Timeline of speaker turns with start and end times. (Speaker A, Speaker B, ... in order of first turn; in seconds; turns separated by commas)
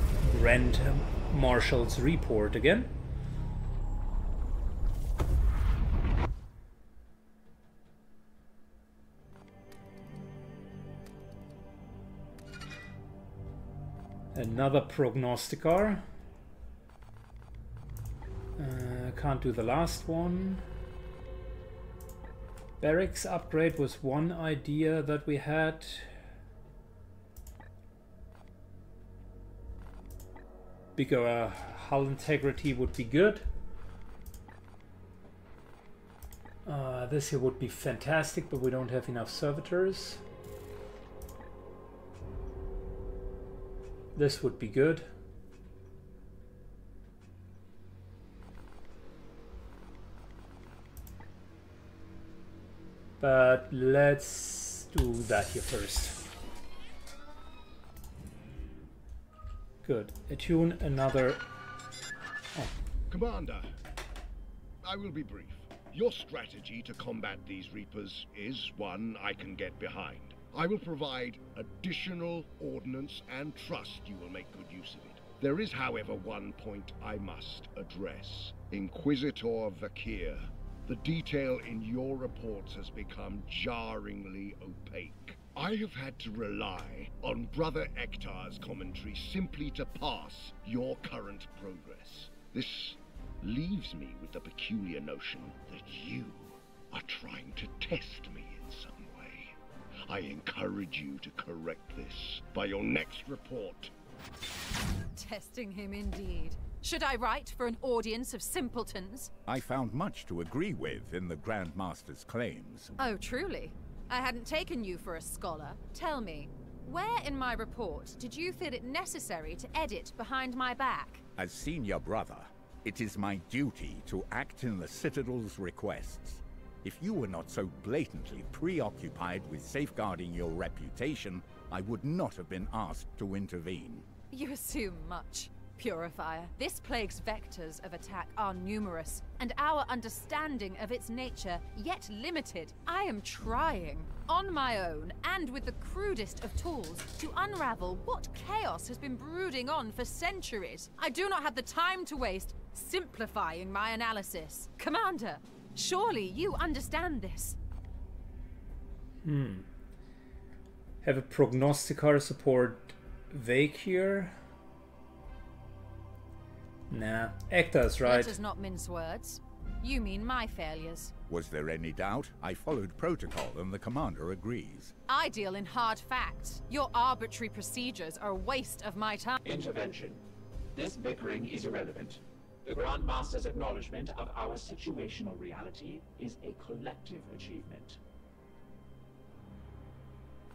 Speaker A: 0.2-2.9, Speaker A: 14.3-16.0, Speaker A: 18.6-20.6, Speaker A: 22.8-26.1, Speaker A: 30.9-33.4, Speaker A: 36.6-40.2, Speaker A: 44.1-45.1, Speaker A: 53.2-56.2, Speaker A: 59.8-61.4, Speaker B: 63.1-63.7, Speaker B: 64.8-99.5, Speaker B: 100.1-103.9, Speaker C: 105.1-109.3, Speaker D: 109.5-112.9, Speaker C: 113.0-121.2, Speaker D: 121.4-134.1, Speaker C: 134.3-157.6, Speaker A: 159.2-159.7, Speaker A: 161.0-164.3, Speaker A: 166.9-168.3, Speaker C: 168.0-171.1, Speaker D: 171.3-174.9, Speaker C: 175.1-179.4, Speaker E: 179.4-180.2, Speaker E: 180.7-188.0